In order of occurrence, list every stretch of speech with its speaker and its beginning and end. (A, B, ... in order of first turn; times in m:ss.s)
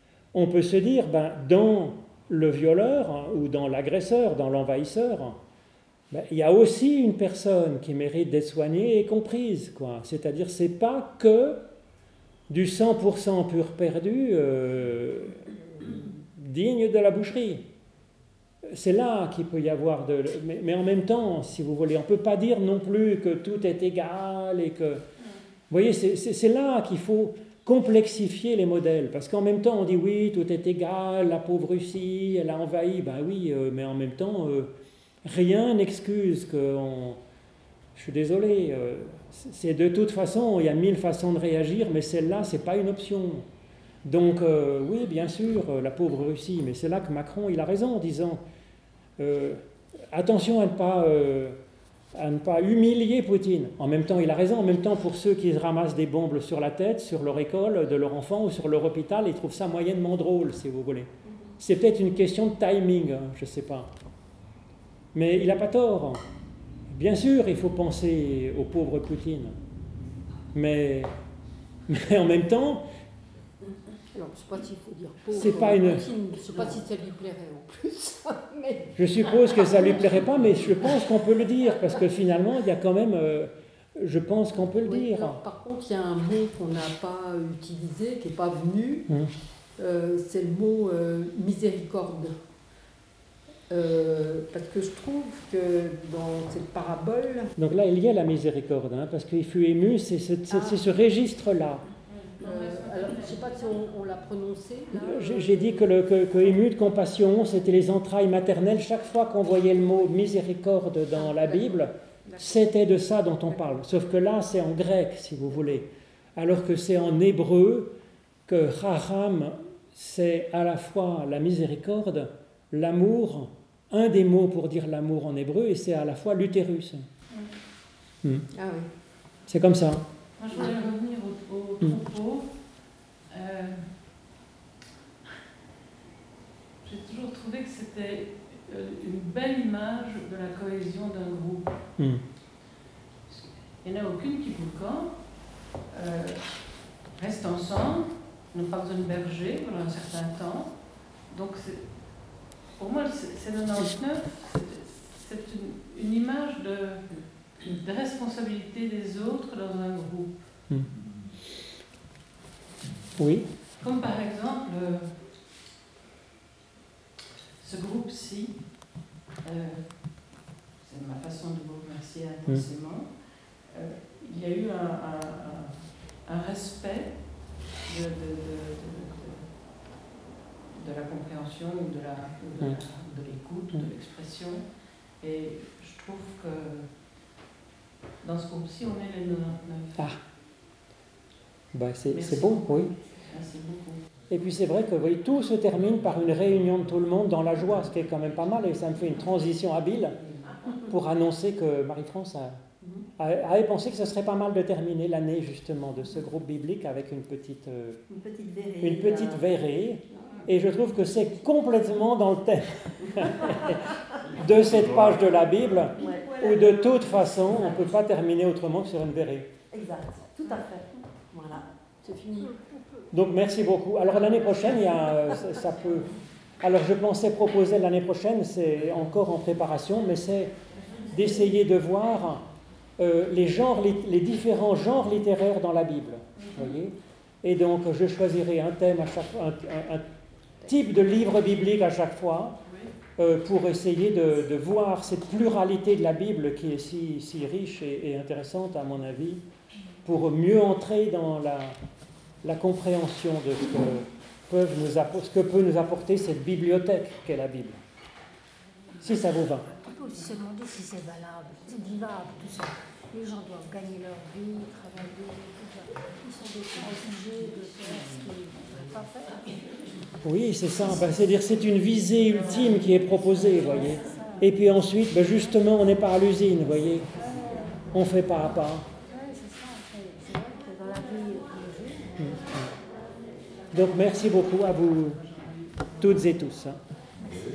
0:00.3-0:05.4 A
0:06.1-0:11.6 A
0:12.5-0:17.6 A
0:18.6-0:25.0 A
0:25.7-0:34.7 A
0:35.2-0:37.2 A
0:38.0-0:43.5 A
0:44.0-0:48.4 A
0:49.2-0:51.6 A
0:52.1-1:03.9 A
1:05.1-1:06.2 A
1:06.9-1:09.6 A
1:10.5-1:11.1 A
1:11.9-1:12.8 A
1:14.1-1:19.8 B
1:15.3-1:16.1 A
1:19.0-1:25.4 A
1:24.8-1:29.1 B
1:29.8-1:32.4 B
1:33.7-1:37.5 B
1:37.6-1:41.8 A
1:40.5-1:40.8 B
1:42.1-1:43.8 C
1:42.4-1:45.9 B
1:45.0-2:07.1 A
1:51.2-1:52.4 B
2:07.3-2:07.6 C
2:08.5-2:08.9 B
2:09.5-2:10.0 A
2:10.4-2:12.5 C
2:13.3-2:13.9 C
2:16.8-2:21.7 C
2:22.0-2:22.2 A
2:23.3-2:40.3 C
2:43.2-2:43.5 A
2:43.8-2:45.2 C
2:47.6-2:53.1 C
2:53.6-2:59.5 C
3:00.6-3:06.9 C
3:08.2-3:10.1 C
3:11.7-3:12.9 A
3:12.1-3:14.0 C
3:14.3-3:20.2 A
3:20.5-3:20.8 D
3:20.9-3:22.6 A
3:22.8-3:23.1 D
3:23.2-3:28.0 A
3:28.1-3:29.5 D
3:28.8-3:39.5 A
3:36.0-3:37.9 D
3:39.7-3:41.7 D
3:42.0-3:42.5 B
3:43.1-3:50.5 A
3:51.0-3:52.4 A
3:53.0-4:00.0 A
3:56.4-3:56.7 C
4:00.6-4:02.6 A
4:02.7-4:02.9 C
4:03.2-4:09.4 A
4:10.0-4:11.8 A
4:12.4-4:17.8 A
4:19.0-4:19.7 A
4:19.8-4:29.6 E
4:30.2-4:37.1 A
4:33.7-4:34.4 E
4:37.1-4:37.9 E
4:37.9-4:38.9 A
4:39.1-4:42.1 E
4:42.2-4:42.7 A
4:43.7-4:45.2 A
4:46.0-4:46.8 A